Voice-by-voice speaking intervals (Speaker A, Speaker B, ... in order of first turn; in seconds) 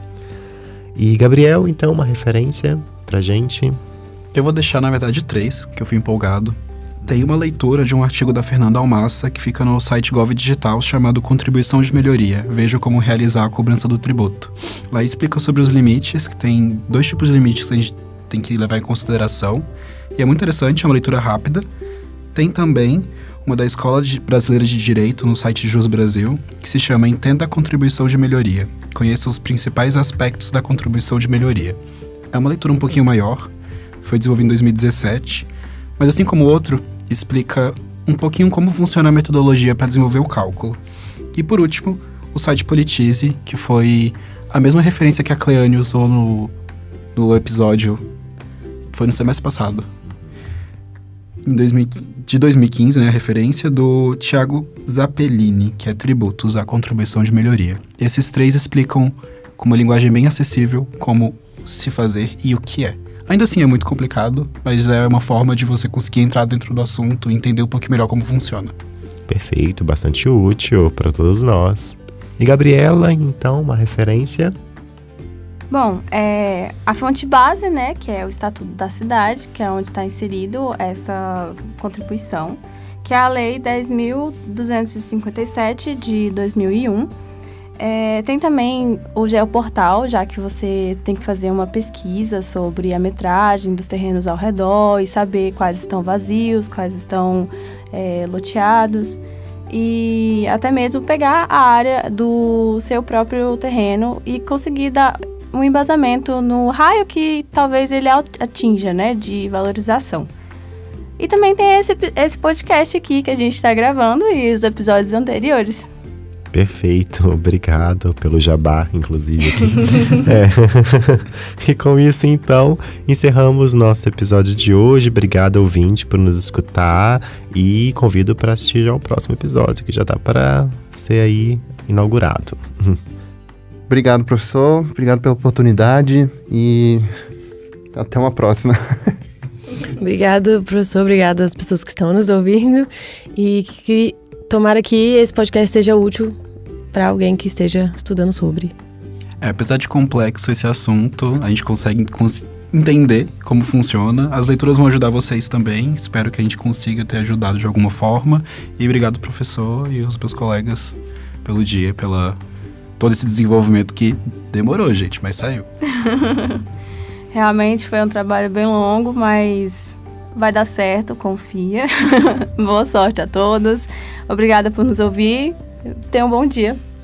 Speaker A: 0.9-3.8, 69.3-74.5, 116.5-133.0
Speaker B: 4.3-21.6, 22.3-31.8, 32.3-33.5, 34.0-35.5, 36.0-40.8, 41.3-46.5, 47.1-48.0, 48.9-49.9, 51.5-68.7, 149.4-162.4, 163.0-165.7
Speaker C: 75.7-87.1, 87.8-110.3, 111.2-115.9, 165.9-166.6, 167.3-176.8
Speaker D: 133.9-137.1, 137.9-139.1
Speaker E: 139.8-146.4, 146.9-148.7